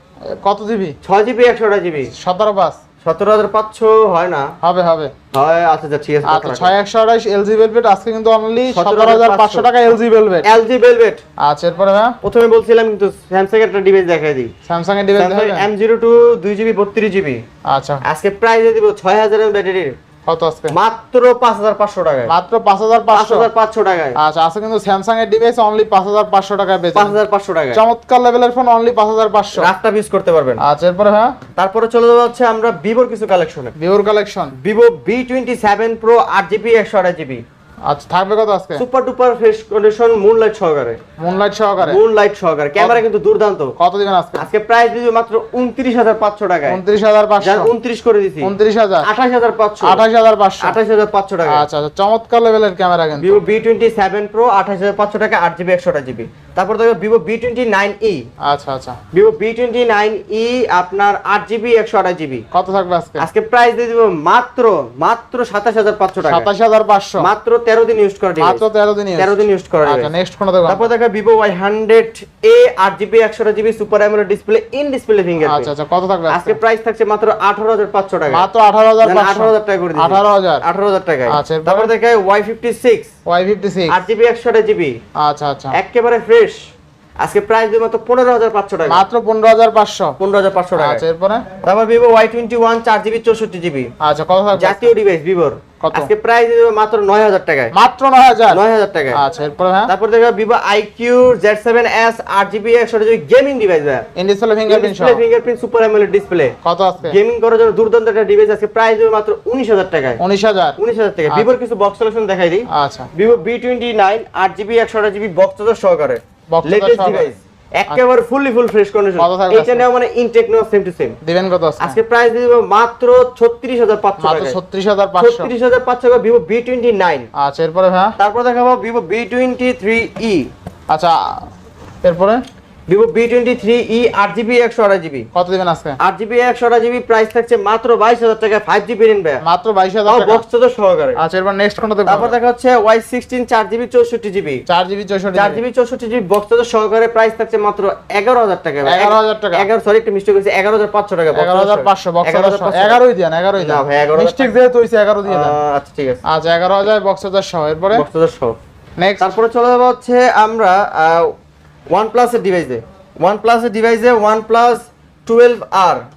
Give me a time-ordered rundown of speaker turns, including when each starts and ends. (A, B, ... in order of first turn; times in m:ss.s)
0:00.2-0:01.0 A
0:01.0-0:02.1 B
0:02.1-0:02.8 A
0:03.0-0:04.5 B
0:04.6-0:05.1 A
0:05.3-0:06.7 B
0:06.2-0:10.5 A
0:08.7-0:09.9 B
0:10.4-0:11.2 B
0:11.4-0:12.2 A
0:12.2-0:14.5 B
0:14.6-0:15.7 A
0:15.1-0:17.4 B
0:17.6-0:18.0 A
0:18.0-0:20.0 B
0:20.2-0:20.7 A
0:20.7-0:22.3 B
0:22.3-0:23.5 A
0:23.1-0:24.2 B
0:24.2-0:27.2 A
0:26.9-0:27.8 B
0:27.7-0:29.7 A
0:29.5-0:30.6 B
0:30.6-0:31.4 A
0:31.6-0:33.7 B
0:33.8-0:34.5 A
0:34.5-0:37.4 B
0:37.8-0:38.8 A
0:38.8-0:41.0 B
0:41.2-0:42.0 A
0:41.8-0:43.8 B
0:42.8-0:43.0 A
0:43.8-0:44.5 A
0:44.4-0:46.8 B
0:46.7-0:47.7 A
0:47.4-0:50.0 B
0:48.4-0:49.1 A
0:49.8-0:50.8 A
0:50.6-0:51.6 B
0:51.5-0:53.4 A
0:53.2-0:58.3 B
0:58.4-0:59.0 A
0:59.1-1:02.4 B
1:02.5-1:03.3 A
1:03.2-1:06.5 B
1:06.3-1:07.3 A
1:07.2-1:08.6 B
1:08.4-1:10.9 A
1:09.2-1:10.1 B
1:10.7-1:15.7 B
1:15.4-1:16.6 A
1:16.3-1:18.5 B
1:18.3-1:20.6 A
1:19.0-1:23.1 B
1:21.3-1:21.9 A
1:23.2-1:24.0 A
1:23.9-1:25.0 B
1:25.2-1:25.8 A
1:25.7-1:26.6 B
1:27.2-1:29.0 B
1:28.9-1:30.2 A
1:30.2-1:31.0 B
1:30.8-1:31.4 A
1:31.6-1:33.9 B
1:34.0-1:34.9 A
1:34.6-1:37.7 B
1:35.8-1:36.1 A
1:37.7-1:38.6 A
1:38.5-1:39.2 B
1:39.1-1:39.9 A
1:39.9-1:44.1 B
1:44.1-1:45.2 A
1:44.6-1:50.2 B
1:46.6-1:47.2 A
1:50.2-1:50.8 A
1:50.8-2:01.2 B
1:51.3-1:51.6 A
1:52.7-1:53.1 A
1:56.5-1:57.3 A
1:59.2-1:59.8 A
2:01.2-2:02.0 A
2:01.8-2:04.6 B
2:04.2-2:05.5 A
2:05.2-2:07.3 B
2:07.3-2:08.1 A
2:08.2-2:10.5 B
2:10.9-2:11.5 A
2:12.0-2:12.4 A
2:12.9-2:15.3 B
2:15.3-2:16.0 A
2:16.0-2:19.4 B
2:19.4-2:20.4 A
2:20.1-2:21.2 B
2:21.2-2:22.4 A
2:22.1-2:24.6 B
2:24.7-2:25.6 A
2:25.3-2:33.0 B
2:28.8-2:29.7 A
2:31.3-2:35.6 A
2:33.6-2:34.5 B
2:35.2-2:36.2 B
2:36.2-2:38.0 A
2:37.9-2:38.6 B
2:39.0-2:39.3 A
2:39.2-2:41.3 B
2:41.9-2:46.0 B